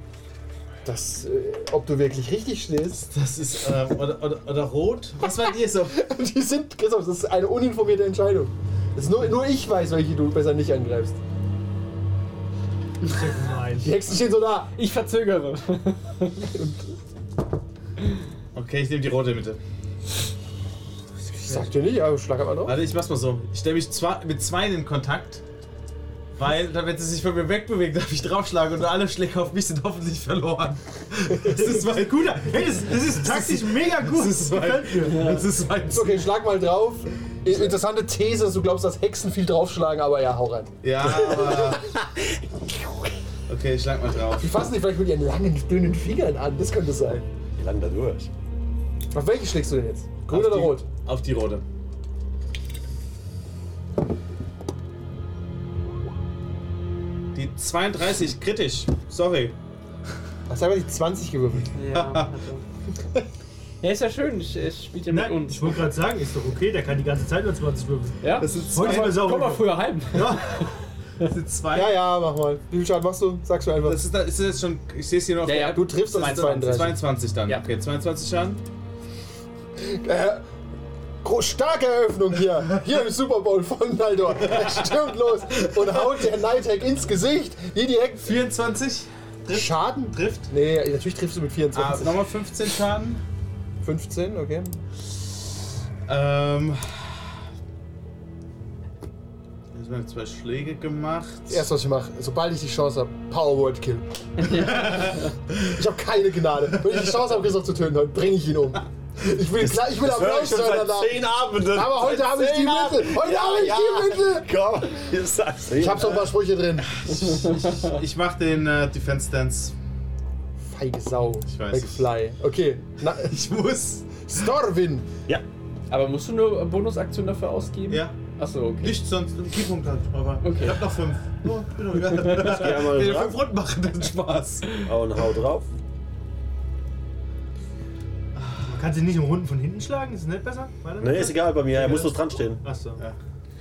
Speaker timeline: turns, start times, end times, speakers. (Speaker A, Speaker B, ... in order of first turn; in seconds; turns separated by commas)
Speaker A: 0.8-3.1, Speaker B: 3.1-6.0, Speaker A: 5.8-11.2, Speaker C: 13.0-14.0, Speaker A: 13.8-14.7, Speaker D: 14.7-16.7, Speaker B: 18.5-19.6, Speaker A: 21.5-22.8, Speaker B: 22.6-25.4, Speaker B: 26.4-36.3, Speaker C: 31.4-35.3, Speaker D: 35.0-35.5, Speaker A: 35.9-41.6, Speaker B: 40.8-41.8, Speaker B: 43.5-44.6, Speaker A: 44.4-47.2, Speaker E: 47.6-48.3, Speaker A: 49.1-50.9, Speaker B: 50.3-51.6, Speaker B: 57.4-59.5, Speaker A: 60.5-61.7, Speaker D: 61.7-62.6, Speaker B: 61.9-62.3, Speaker D: 63.8-65.8, Speaker C: 65.1-70.6, Speaker D: 68.2-70.7, Speaker B: 68.4-69.2, Speaker A: 68.6-69.0, Speaker B: 71.2-72.0, Speaker A: 71.7-74.0, Speaker B: 73.8-78.6, Speaker D: 75.4-76.9, Speaker A: 75.5-77.0, Speaker A: 79.8-80.5, Speaker A: 81.2-88.3, Speaker B: 85.8-86.0, Speaker B: 88.2-90.5, Speaker A: 89.5-92.2, Speaker B: 91.7-93.2, Speaker A: 93.8-94.8, Speaker B: 96.1-97.2, Speaker B: 99.7-101.6, Speaker A: 101.5-104.1, Speaker D: 104.4-105.3, Speaker B: 104.5-105.8, Speaker A: 105.7-114.5, Speaker E: 109.5-116.3, Speaker A: 115.8-117.0, Speaker B: 117.0-119.7, Speaker A: 120.6-123.4, Speaker B: 121.5-122.0, Speaker B: 123.2-124.3, Speaker A: 124.2-125.1, Speaker D: 125.9-129.0, Speaker B: 127.9-128.2, Speaker B: 128.8-134.7, Speaker D: 130.4-130.9, Speaker D: 132.2-132.6, Speaker E: 132.3-133.4, Speaker E: 134.8-135.7, Speaker B: 138.4-138.7, Speaker C: 138.7-143.0, Speaker E: 141.0-142.6